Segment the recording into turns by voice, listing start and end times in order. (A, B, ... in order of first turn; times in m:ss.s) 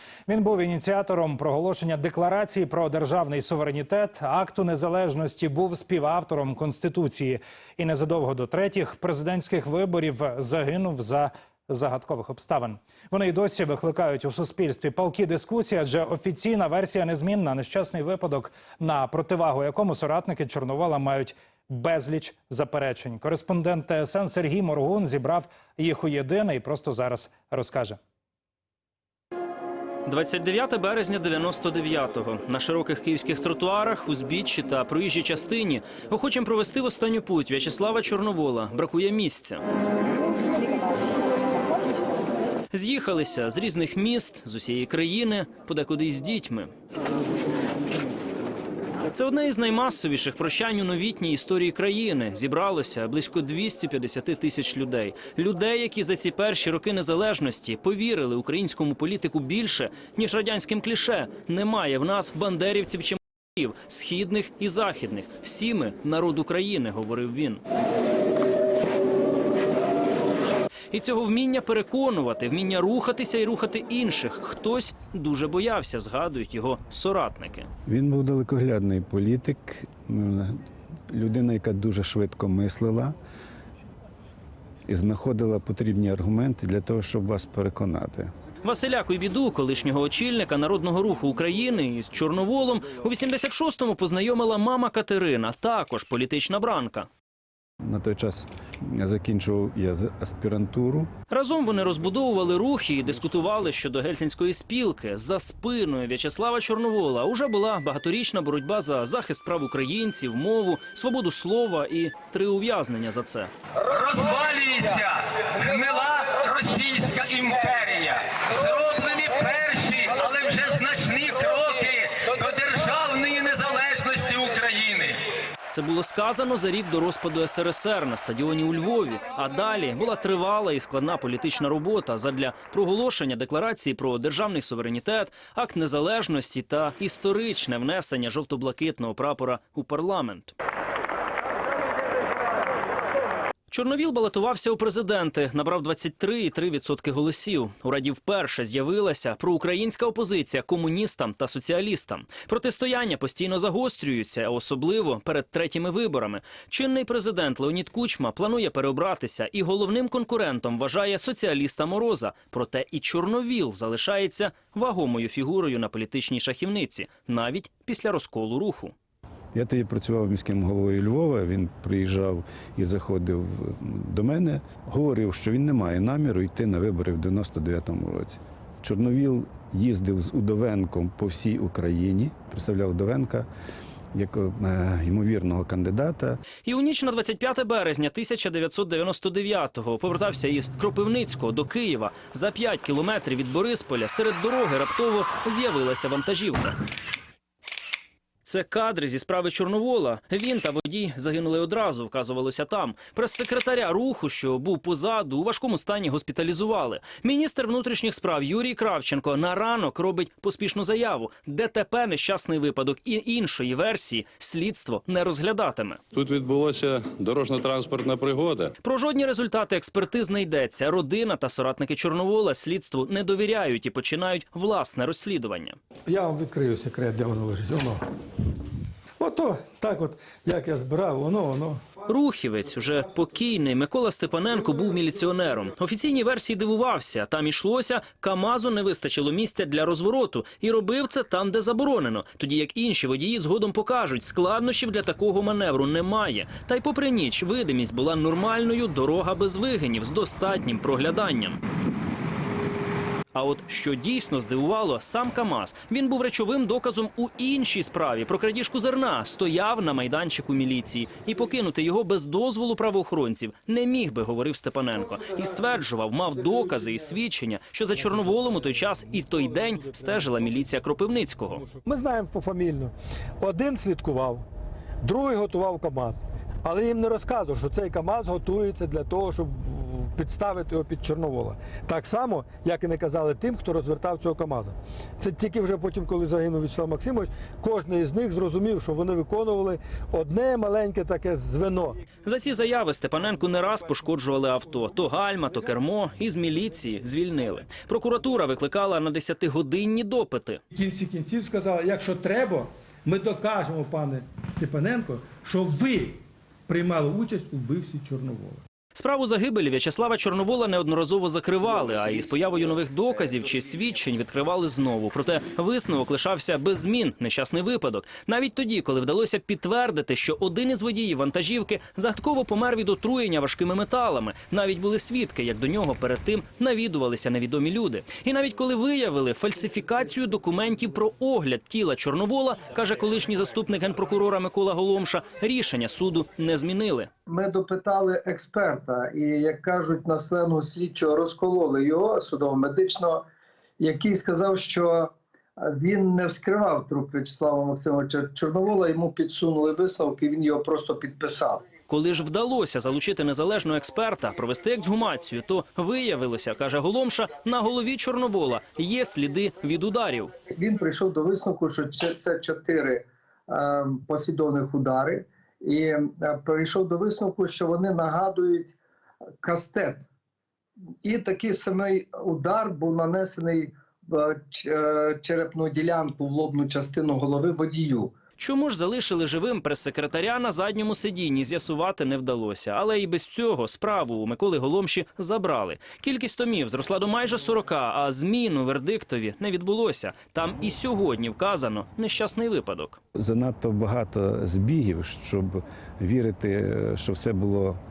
0:00.3-0:28.0 A
0:30.1-0:39.6 B
0:42.7-0:46.7 B
0:49.1-1:07.6 B
1:10.9-1:17.7 B
1:17.9-1:20.6 C
1:21.1-1:23.2 C
1:24.9-1:28.3 C
1:28.6-1:37.1 B
1:37.8-1:41.1 C
1:41.3-1:53.5 B
1:53.9-2:05.2 D
1:58.9-1:59.4 B
2:00.1-2:00.8 B
2:05.7-2:20.6 B
2:23.7-2:48.9 B
2:49.5-3:03.5 C
3:04.1-3:06.4 C
3:06.6-3:16.8 B
3:18.4-3:36.0 B
3:36.1-3:38.7 E
3:38.8-3:45.8 B
3:46.1-3:48.0 F
3:49.2-3:52.0 F
3:52.1-4:11.6 B
4:13.3-4:31.6 B
4:31.6-4:34.5 F
4:35.0-4:52.0 F
4:52.2-5:00.6 B
5:00.7-5:08.6 F
5:09.0-5:37.1 B
5:37.3-5:43.2 G
5:43.8-5:51.6 G
5:51.9-6:00.3 B
6:00.5-6:08.8 G
6:09.4-6:10.0 G
6:11.0-6:18.1 G
6:18.4-6:33.0 B
6:33.2-6:37.8 C